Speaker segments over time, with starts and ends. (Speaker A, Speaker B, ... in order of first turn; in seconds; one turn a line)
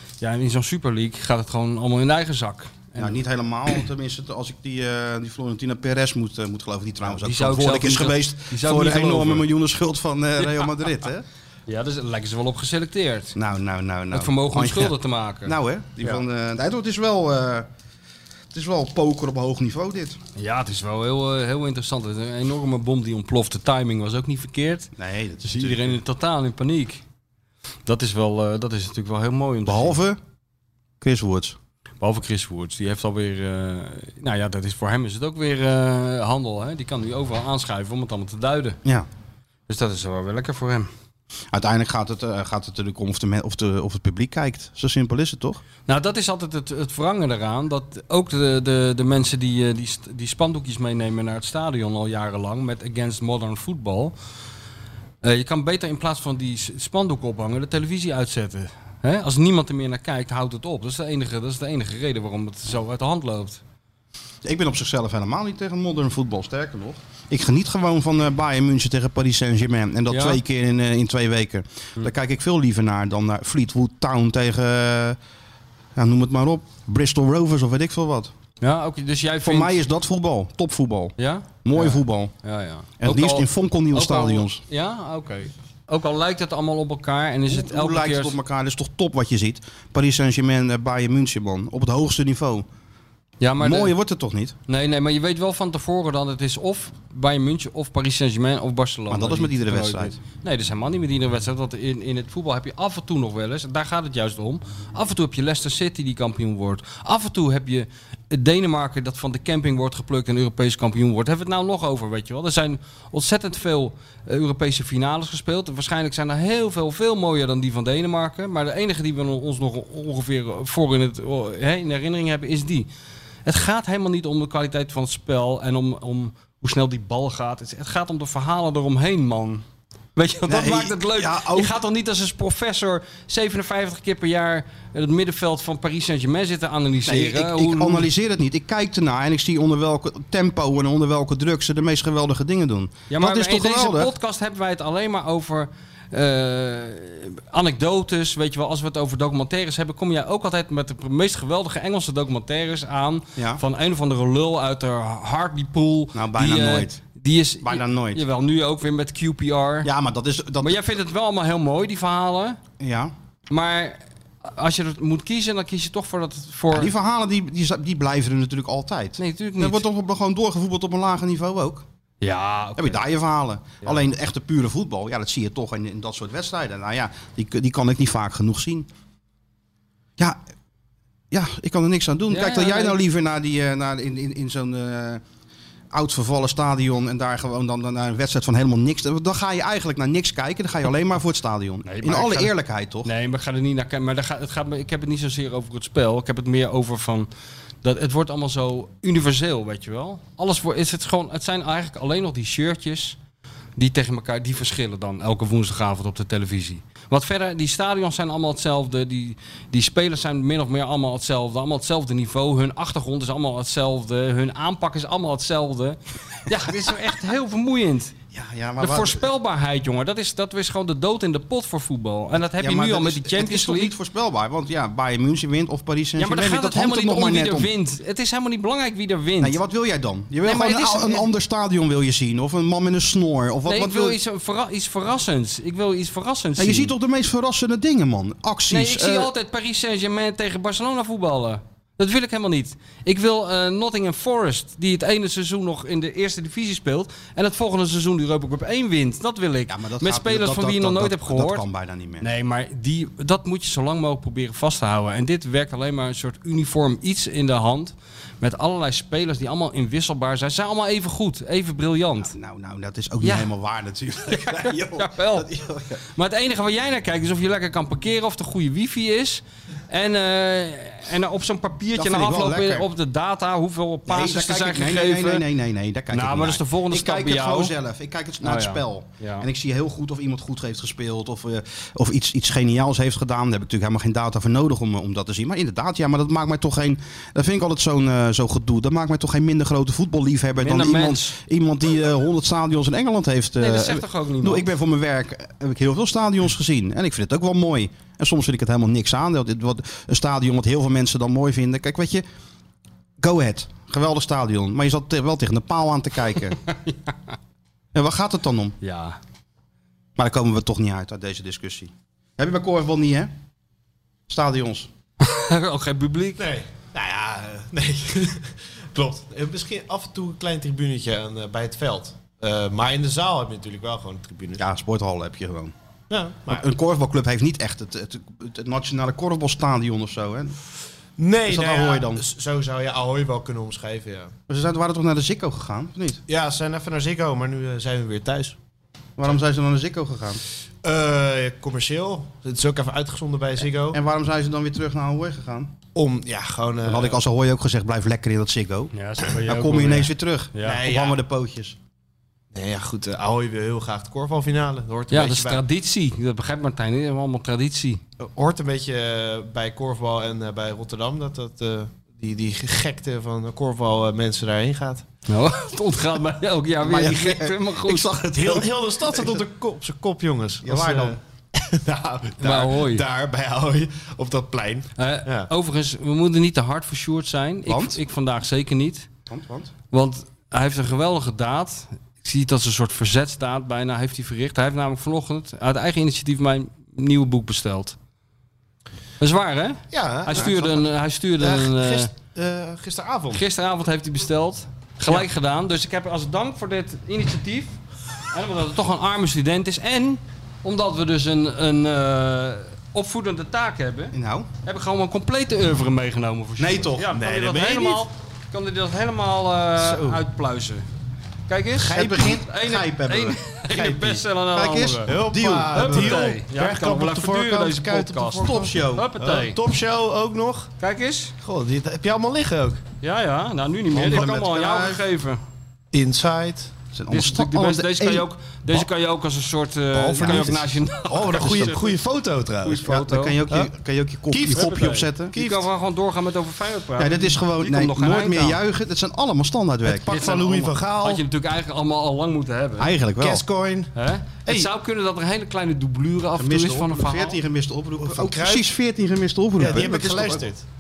Speaker A: 0.2-3.2
Speaker B: 3.0-11.2
Speaker A: 7.1-9.5
Speaker A: 11.7-13.4
Speaker B: 13.4-17.7
Speaker A: 14.1-15.5
Speaker B: 18.5-20.2
Speaker A: 20.4-24.9
Speaker B: 25.0-26.0
Speaker A: 25.4-27.0
Speaker A: 27.9-30.0
Speaker B: 29.6-30.2
Speaker B: 31.0-31.6
Speaker A: 32.0-38.8
Speaker A: 39.7-40.9
Speaker B: 41.5-45.6
Speaker A: 45.9-54.1
Speaker A: 55.2-63.6
Speaker B: 64.4-75.2
Speaker A: 70.1-70.4
Speaker B: 76.0-78.3
Speaker A: 78.6-79.8
Speaker B: 79.4-82.3
Speaker A: 81.2-88.4
Speaker B: 83.0-84.6
Speaker B: 87.5-92.7
Speaker A: 93.4-94.0
Speaker B: 93.6-94.5
Speaker A: 94.7-122.9
Speaker B: 99.1-100.2
Speaker A: 123.5-129.6
Speaker A: 130.2-138.1
Speaker B: 130.5-131.8
Speaker B: 137.1-144.1
Speaker A: 143.1-159.9
Speaker B: 156.1-157.0
Speaker B: 157.6-158.2
Speaker B: 159.8-160.8
Speaker A: 160.6-162.6
Speaker B: 162.8-163.1
Speaker A: 163.5-166.9
Speaker B: 166.7-171.8
Speaker A: 169.2-169.8
Speaker A: 172.2-173.0
Speaker B: 172.8-178.9
Speaker B: 181.3-185.2
Speaker A: 182.3-183.0
Speaker B: 185.9-193.1
Speaker A: 191.8-197.3
Speaker A: 197.8-203.2
Speaker A: 203.8-218.2
Speaker B: 218.3-219.3
Speaker A: 218.8-223.9
Speaker B: 222.5-227.7
Speaker A: 226.2-229.6
Speaker B: 229.4-234.2
Speaker A: 230.4-231.3
Speaker A: 233.7-236.9
Speaker B: 236.6-239.3
Speaker A: 238.7-251.7
Speaker B: 249.7-252.3
Speaker A: 252.2-262.3
Speaker B: 262.2-266.0
Speaker A: 263.2-263.5
Speaker A: 264.3-265.5
Speaker A: 266.1-275.4
Speaker B: 271.9-272.9
Speaker B: 274.1-302.2
Speaker A: 276.1-277.8
Speaker A: 278.4-279.5
Speaker A: 290.6-291.4
Speaker A: 293.6-294.7
Speaker B: 303.2-306.6
Speaker A: 306.7-307.1
Speaker B: 307.9-308.8
Speaker A: 308.8-309.2
Speaker B: 310.2-313.3
Speaker B: 314.3-314.9
Speaker A: 315.2-316.4
Speaker C: 316.4-324.6
Speaker B: 324.6-325.7
Speaker C: 326.1-326.6
Speaker B: 326.5-330.6
Speaker C: 331.2-334.3
Speaker B: 331.5-332.2
Speaker B: 334.5-336.2
Speaker C: 336.3-338.6
Speaker B: 339.2-340.4
Speaker C: 340.8-344.0
Speaker B: 343.9-345.7
Speaker C: 345.9-347.2
Speaker B: 346.9-351.8
Speaker A: 348.9-350.8
Speaker C: 350.6-351.2
Speaker C: 352.5-355.6
Speaker A: 355.1-358.0
Speaker C: 358.2-365.1
Speaker A: 365.3-368.1
Speaker B: 366.8-369.4
Speaker C: 368.4-375.5
Speaker B: 370.6-371.2
Speaker A: 372.4-373.0
Speaker A: 375.0-379.1
Speaker B: 377.7-378.0
Speaker B: 379.3-379.7
Speaker A: 379.9-388.0
Speaker A: 389.2-392.1
Speaker C: 389.9-393.4
Speaker A: 393.3-397.8
Speaker A: 398.3-410.9
Speaker B: 404.1-404.5
Speaker B: 406.6-407.1
Speaker C: 407.1-408.1
Speaker B: 409.8-410.2
Speaker A: 411.5-415.1
Speaker B: 411.8-416.3
Speaker C: 411.8-412.3
Speaker C: 415.1-418.7
Speaker A: 415.7-419.6
Speaker B: 418.4-419.1
Speaker C: 419.2-420.7
Speaker A: 420.8-421.3
Speaker C: 421.4-422.8
Speaker A: 423.0-425.4
Speaker B: 423.9-425.0
Speaker C: 425.9-426.7
Speaker B: 426.9-428.9
Speaker A: 427.1-431.9
Speaker C: 429.9-432.9
Speaker B: 430.1-430.7
Speaker A: 432.6-433.4
Speaker B: 432.8-435.4
Speaker C: 434.3-434.8
Speaker A: 434.5-438.6
Speaker C: 435.4-435.6
Speaker B: 437.0-440.4
Speaker C: 439.9-441.2
Speaker A: 440.1-442.9
Speaker B: 442.8-443.4
Speaker C: 443.2-443.9
Speaker A: 444.0-447.4
Speaker B: 446.4-450.4
Speaker C: 448.0-448.7
Speaker C: 449.6-450.6